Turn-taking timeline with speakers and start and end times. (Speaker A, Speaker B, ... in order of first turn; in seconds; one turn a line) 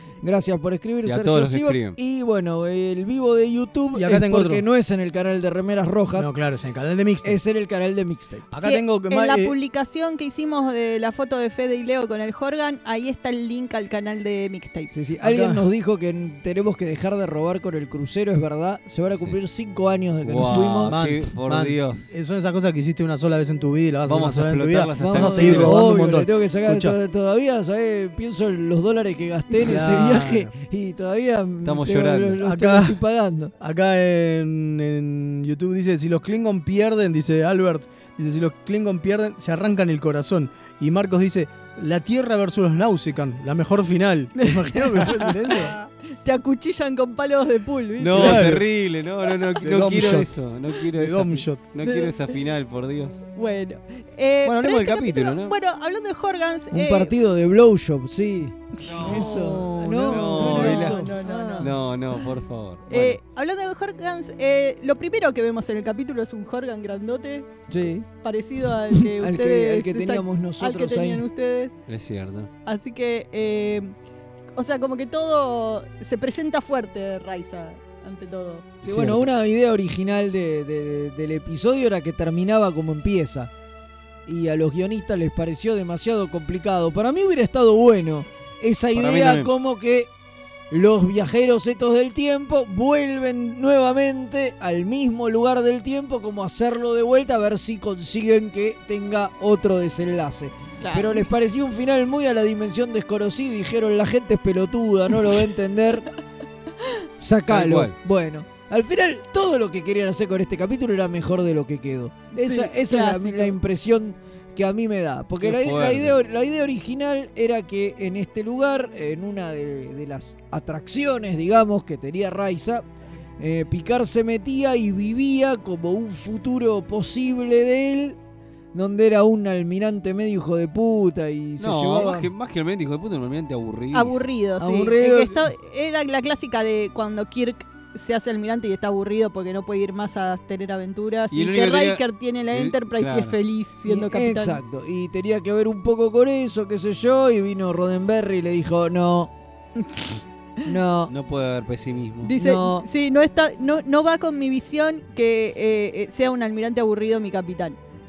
Speaker A: 0.2-6.3
Speaker B: 1.0-2.0
Speaker C: 3.9-4.6
Speaker C: 6.2-7.4
Speaker A: 7.2-8.5
Speaker C: 8.5-9.6
Speaker D: 8.6-14.9
Speaker A: 14.9-21.0
Speaker C: 15.2-15.6
Speaker B: 19.1-19.4
Speaker B: 20.2-22.1
Speaker C: 20.9-27.0
Speaker B: 24.1-25.8
Speaker A: 25.0-33.5
Speaker C: 29.6-30.5
Speaker B: 31.6-32.4
Speaker C: 32.4-33.0
Speaker C: 33.6-45.7
Speaker D: 44.4-48.5
Speaker B: 48.0-53.2
Speaker C: 48.1-48.6
Speaker C: 49.6-50.4
Speaker C: 50.9-51.6
Speaker D: 51.9-52.1
Speaker D: 53.4-57.1
Speaker B: 54.5-55.5
Speaker A: 56.7-61.7
Speaker B: 58.9-59.3
Speaker C: 59.0-60.7
Speaker B: 60.1-61.0
Speaker D: 60.4-61.8
Speaker B: 61.6-63.2
Speaker D: 62.9-67.5
Speaker A: 67.7-68.1
Speaker D: 68.2-71.8
Speaker A: 68.9-71.2
Speaker B: 71.9-72.5
Speaker D: 72.7-73.9
Speaker D: 74.6-78.8
Speaker A: 78.8-83.5
Speaker B: 78.8-79.3
Speaker A: 84.3-90.1
Speaker B: 88.9-89.5
Speaker A: 90.7-106.1
Speaker D: 100.8-101.2
Speaker A: 107.2-122.8
Speaker B: 107.5-107.9
Speaker D: 112.4-113.5
Speaker B: 115.4-116.2
Speaker A: 123.4-128.2
Speaker A: 128.7-132.3
Speaker B: 131.6-134.2
Speaker D: 133.9-144.6
Speaker A: 134.6-135.5
Speaker B: 141.3-143.4
Speaker A: 143.9-149.3
Speaker D: 149.8-150.2
Speaker A: 150.7-151.1
Speaker B: 151.1-152.3
Speaker D: 152.3-157.8
Speaker A: 152.4-152.8